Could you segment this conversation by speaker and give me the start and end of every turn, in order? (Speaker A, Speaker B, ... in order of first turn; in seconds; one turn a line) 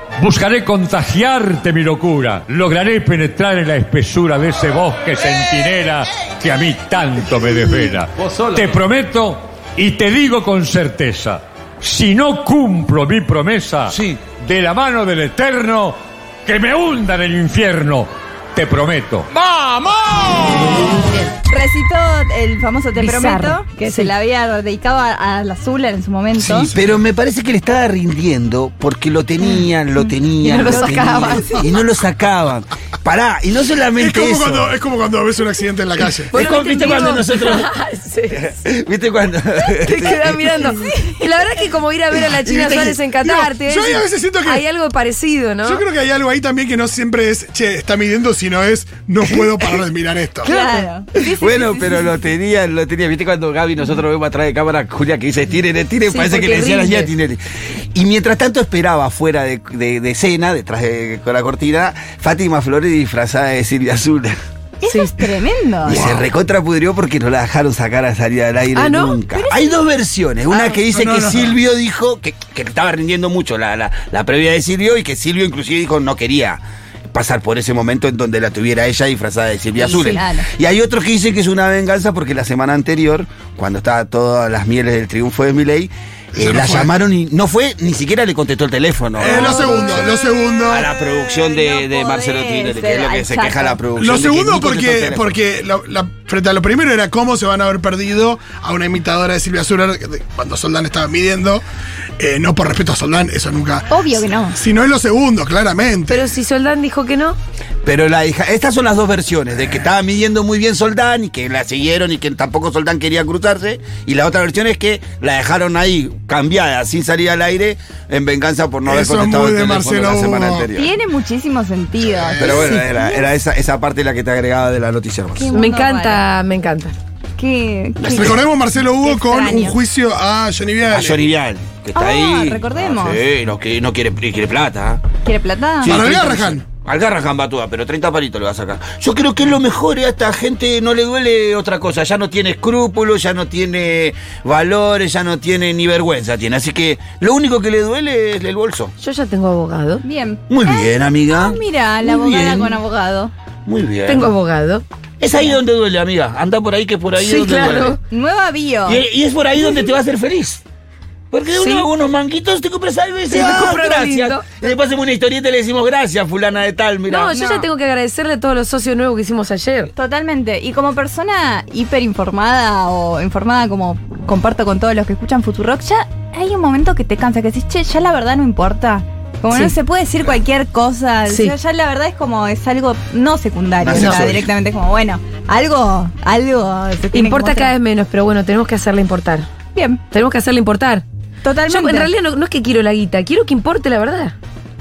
Speaker A: 0.2-19.3
Speaker B: 20.9-21.3
Speaker C: 21.5-26.7
Speaker B: 23.0-24.1
Speaker D: 26.4-26.8
Speaker E: 26.7-34.7
Speaker C: 30.0-31.7
Speaker B: 30.4-31.5
Speaker D: 34.0-36.3
Speaker E: 36.3-37.7
Speaker B: 36.3-38.4
Speaker E: 38.3-40.4
Speaker B: 39.8-45.8
Speaker C: 40.6-41.4
Speaker E: 42.5-42.8
Speaker D: 42.5-44.6
Speaker D: 45.6-50.5
Speaker C: 50.4-52.1
Speaker B: 50.5-50.8
Speaker E: 51.3-64.4
Speaker B: 56.1-57.1
Speaker C: 64.8-66.1
Speaker B: 64.9-65.2
Speaker E: 65.8-95.3
Speaker D: 65.9-66.2
Speaker B: 68.7-69.2
Speaker C: 69.3-69.8
Speaker D: 70.9-71.5
Speaker C: 79.8-80.5
Speaker D: 86.3-86.9
Speaker D: 89.2-90.9
Speaker C: 89.3-90.0
Speaker C: 91.2-93.8
Speaker D: 94.0-101.6
Speaker D: 102.2-104.0
Speaker C: 103.9-104.6
Speaker D: 104.5-106.3
Speaker B: 106.1-107.4
Speaker E: 107.8-120.9
Speaker D: 118.8-120.7
Speaker C: 120.7-123.3
Speaker D: 122.2-122.8
Speaker E: 122.4-125.5
Speaker C: 125.3-126.2
Speaker B: 125.5-127.0
Speaker C: 127.4-129.8
Speaker E: 128.0-128.3
Speaker D: 128.1-131.2
Speaker E: 130.9-135.1
Speaker C: 131.9-133.2
Speaker C: 135.2-136.0
Speaker E: 135.8-148.9
Speaker D: 135.8-136.6
Speaker B: 149.0-150.0
Speaker C: 150.0-153.3
Speaker E: 150.5-152.8
Speaker E: 153.7-154.3
Speaker B: 154.1-154.8
Speaker E: 155.2-158.0
Speaker B: 157.2-158.0
Speaker C: 158.1-159.0
Speaker E: 158.8-160.6
Speaker E: 161.3-167.6
Speaker B: 161.6-161.9
Speaker B: 163.3-164.4
Speaker B: 167.1-169.9
Speaker C: 167.3-167.6
Speaker C: 169.9-187.7
Speaker B: 181.3-181.5
Speaker E: 183.8-184.5
Speaker B: 183.9-184.2
Speaker B: 187.1-189.5
Speaker C: 189.7-190.0
Speaker B: 190.1-191.0
Speaker C: 191.4-192.1
Speaker B: 191.7-194.3